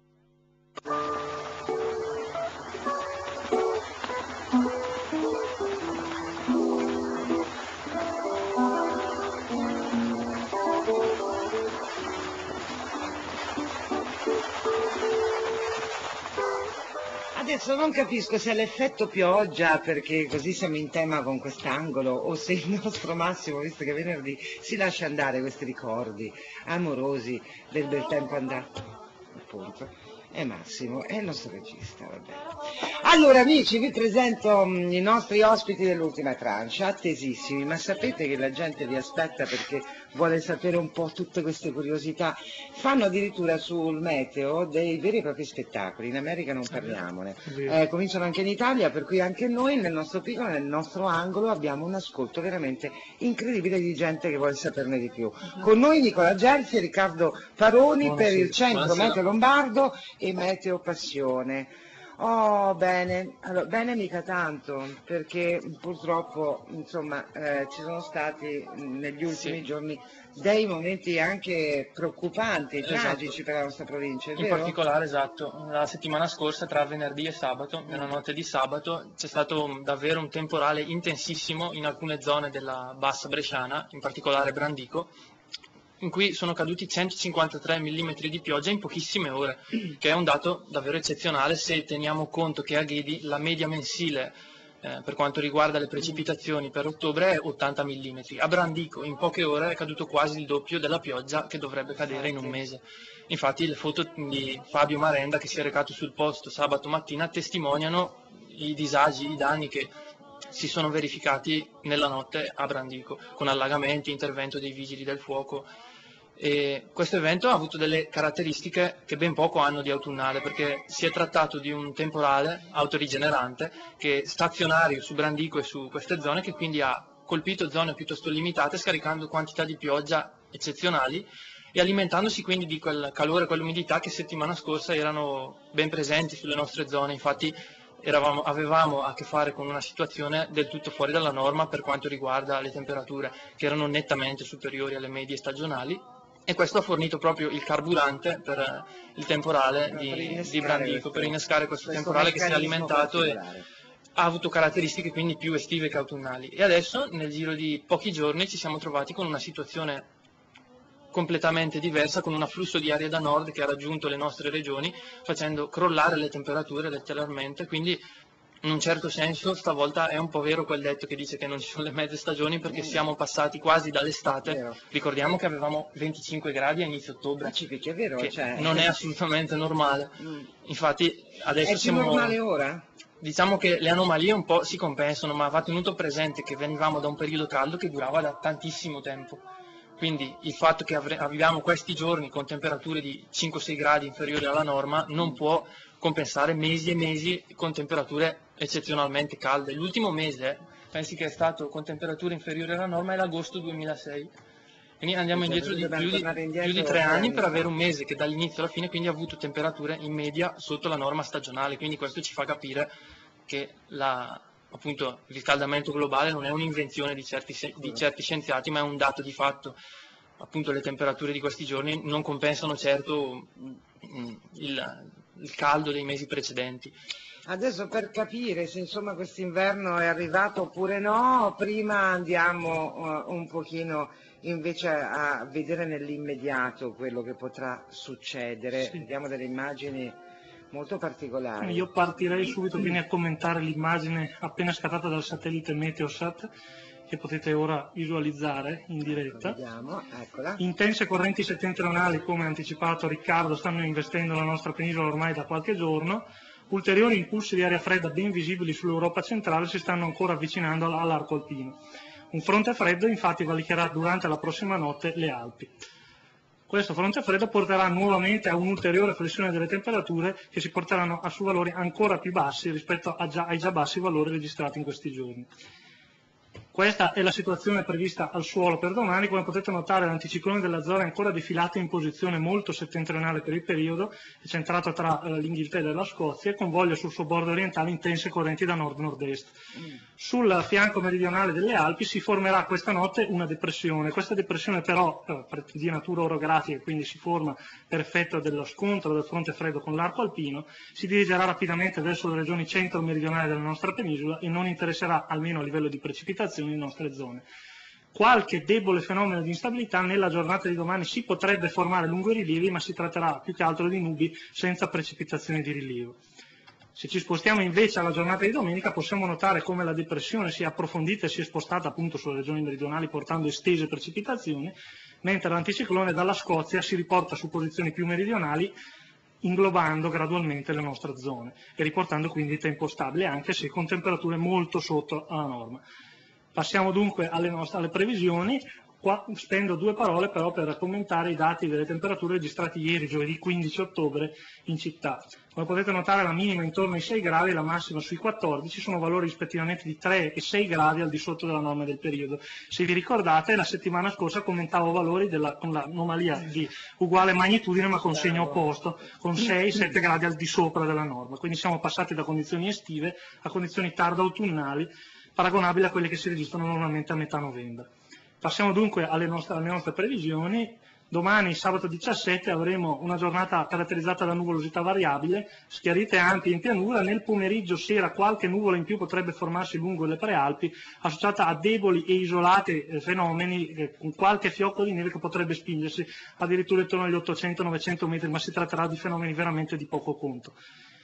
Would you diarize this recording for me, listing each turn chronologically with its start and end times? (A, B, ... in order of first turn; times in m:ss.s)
0:17.3-0:28.7 A
0:29.3-0:32.4 A
0:33.0-1:14.8 A
0:47.4-0:47.8 B
0:58.0-0:59.2 C
1:09.3-1:09.6 C
1:12.8-1:13.3 C
1:14.4-1:25.1 C
1:17.9-1:18.2 A
1:26.0-1:49.9 C
1:42.0-1:42.6 A
1:50.5-1:55.7 C
1:56.4-2:33.4 C
2:29.9-2:33.6 A
2:34.2-2:40.1 C
2:41.1-2:48.0 C
2:48.6-2:57.5 C
2:52.6-2:53.0 A
2:54.4-2:54.8 A
2:57.4-2:59.0 A
2:58.2-3:02.4 C
3:00.2-3:00.5 A
3:01.6-3:02.8 A
3:03.2-3:09.4 C
3:10.0-3:24.3 C
3:25.0-3:32.9 C
3:25.3-3:27.7 A
3:33.5-3:39.8 C
3:40.4-3:46.9 C
3:47.4-4:00.2 A
3:58.8-3:59.0 B
4:00.7-4:01.9 A
4:01.6-4:06.5 B
4:07.1-4:09.6 B
4:09.0-4:10.6 A
4:10.6-4:21.8 B
4:22.3-4:25.7 B
4:26.7-4:35.5 B
4:36.7-4:49.6 B
4:50.2-5:07.4 B
5:08.1-5:16.2 B
5:16.9-5:28.7 B
5:29.4-5:35.8 B
5:36.5-6:07.9 B
5:58.0-5:58.6 A
6:08.4-6:30.5 B